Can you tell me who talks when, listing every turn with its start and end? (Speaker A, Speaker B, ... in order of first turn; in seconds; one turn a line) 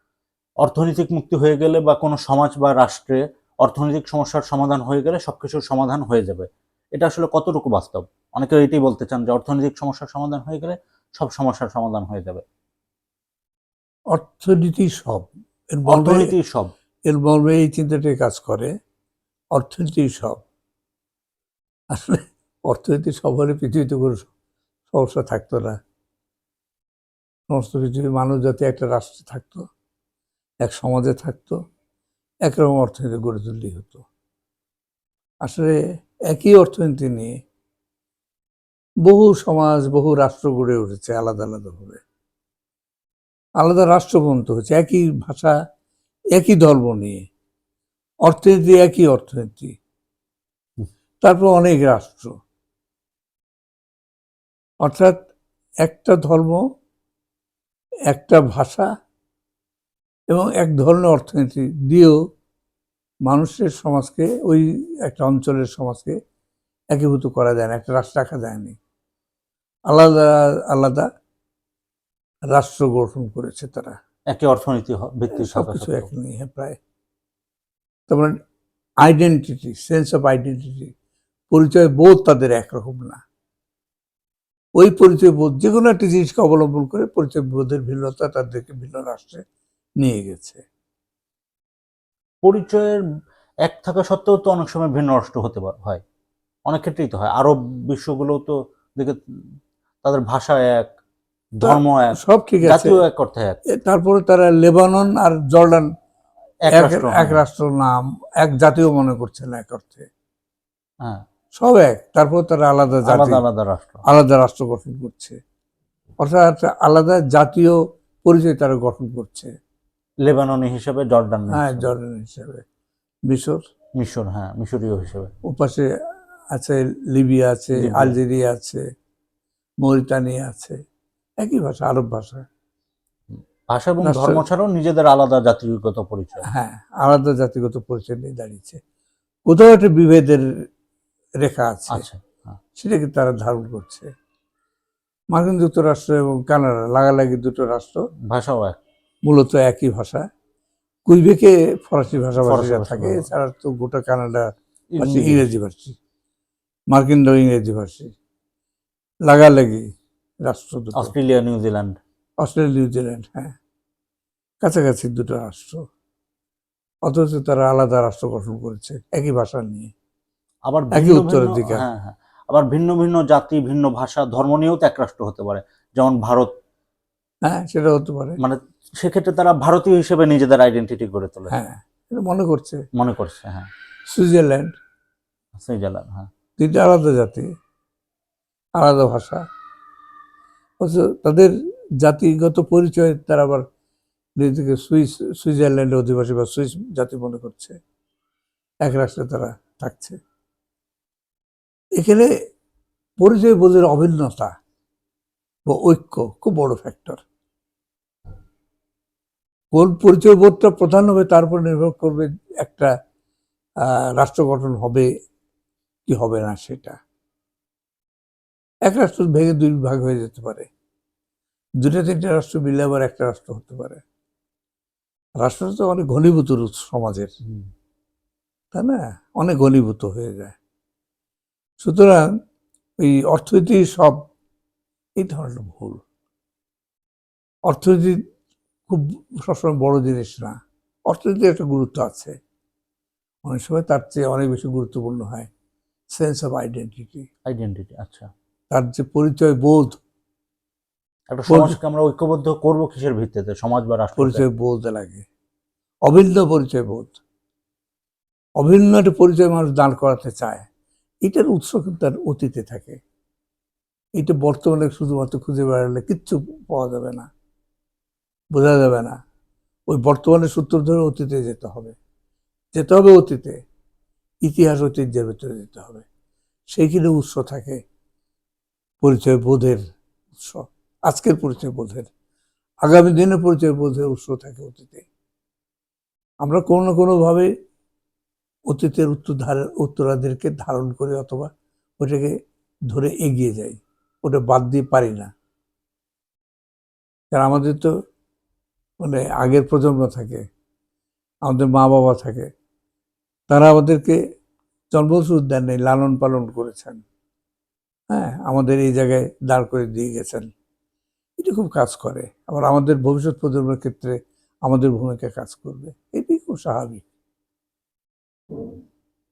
Speaker A: 0.6-12.4
Speaker B: 14.1-16.3
Speaker A: 15.9-16.7
Speaker B: 17.1-18.7
Speaker B: 19.6-20.4
Speaker B: 21.9-24.3
Speaker B: 24.9-25.8
Speaker B: 27.5-29.6
Speaker B: 30.6-31.6
Speaker B: 32.5-34.0
Speaker B: 35.4-35.8
Speaker B: 36.3-37.3
Speaker B: 39.0-42.0
Speaker B: 43.6-45.5
Speaker B: 46.3-47.2
Speaker B: 48.3-49.7
Speaker B: 51.2-52.3
Speaker B: 54.8-55.2
Speaker B: 55.8-56.6
Speaker B: 58.1-58.9
Speaker B: 60.3-62.2
Speaker B: 63.2-66.2
Speaker B: 66.9-68.8
Speaker B: 69.9-71.1
Speaker B: 72.5-73.9
Speaker A: 74.3-76.1
Speaker B: 75.3-76.8
Speaker B: 78.1-78.3
Speaker B: 79.0-80.9
Speaker B: 81.5-83.2
Speaker B: 84.8-89.4
Speaker B: 90.0-90.6
Speaker A: 92.4-93.0
Speaker A: 93.6-96.0
Speaker A: 96.7-99.2
Speaker A: 100.0-100.9
Speaker A: 101.5-103.6
Speaker B: 101.6-102.9
Speaker B: 103.7-105.9
Speaker A: 106.6-107.4
Speaker B: 106.7-110.1
Speaker B: 111.6-113.4
Speaker A: 113.0-114.0
Speaker B: 114.1-115.4
Speaker B: 116.2-119.5
Speaker A: 120.2-121.9
Speaker B: 121.5-122.6
Speaker B: 123.3-123.6
Speaker A: 124.0-125.3
Speaker B: 125.4-125.9
Speaker B: 126.5-128.8
Speaker A: 127.8-128.2
Speaker B: 129.8-130.7
Speaker B: 131.4-132.4
Speaker A: 133.3-136.4
Speaker B: 134.0-134.4
Speaker B: 136.5-138.8
Speaker B: 139.5-140.4
Speaker B: 141.4-142.0
Speaker A: 141.9-142.6
Speaker B: 142.8-144.1
Speaker B: 145.3-148.0
Speaker A: 148.3-148.8
Speaker B: 149.2-150.2
Speaker B: 151.1-154.4
Speaker A: 152.4-153.3
Speaker A: 154.9-155.4
Speaker B: 155.0-155.9
Speaker B: 156.9-158.1
Speaker B: 159.3-159.8
Speaker B: 160.4-161.1
Speaker A: 160.9-161.9
Speaker B: 162.4-163.6
Speaker B: 164.6-165.8
Speaker B: 167.1-169.9
Speaker A: 170.7-176.5
Speaker B: 170.9-171.8
Speaker B: 177.4-178.4
Speaker A: 178.4-181.5
Speaker B: 181.5-182.8
Speaker A: 182.9-183.7
Speaker B: 184.1-184.7
Speaker A: 185.5-186.3
Speaker B: 186.6-187.5
Speaker B: 188.8-189.4
Speaker B: 190.8-193.6
Speaker B: 194.4-197.8
Speaker B: 198.8-200.2
Speaker B: 202.0-202.3
Speaker B: 203.2-204.5
Speaker B: 205.7-207.2
Speaker B: 209.7-212.9
Speaker B: 213.8-215.1
Speaker B: 216.1-217.0
Speaker B: 218.8-220.7
Speaker B: 221.8-224.0
Speaker B: 225.4-227.3
Speaker B: 228.7-230.6
Speaker B: 231.8-232.3
Speaker B: 233.0-234.2
Speaker B: 235.2-236.0
Speaker B: 237.7-238.2
Speaker B: 238.9-240.5
Speaker B: 241.1-242.3
Speaker B: 243.4-245.5
Speaker B: 246.1-247.2
Speaker A: 247.5-248.3
Speaker B: 248.7-250.0
Speaker A: 251.3-254.4
Speaker B: 251.5-251.8
Speaker B: 254.2-255.2
Speaker B: 256.1-257.2
Speaker B: 258.6-260.7
Speaker B: 261.2-263.0
Speaker B: 264.2-267.3
Speaker B: 268.5-269.2
Speaker B: 269.9-271.9
Speaker B: 272.7-273.6
Speaker B: 274.4-276.0
Speaker B: 276.7-277.8
Speaker B: 279.0-279.8
Speaker B: 280.4-282.1
Speaker B: 282.8-285.1
Speaker B: 286.4-287.5
Speaker B: 288.7-292.3
Speaker B: 292.9-295.3
Speaker B: 297.3-297.9
Speaker B: 299.0-300.4
Speaker B: 301.4-302.5
Speaker B: 303.5-304.2
Speaker B: 304.9-307.0
Speaker B: 308.1-310.5
Speaker B: 311.4-317.0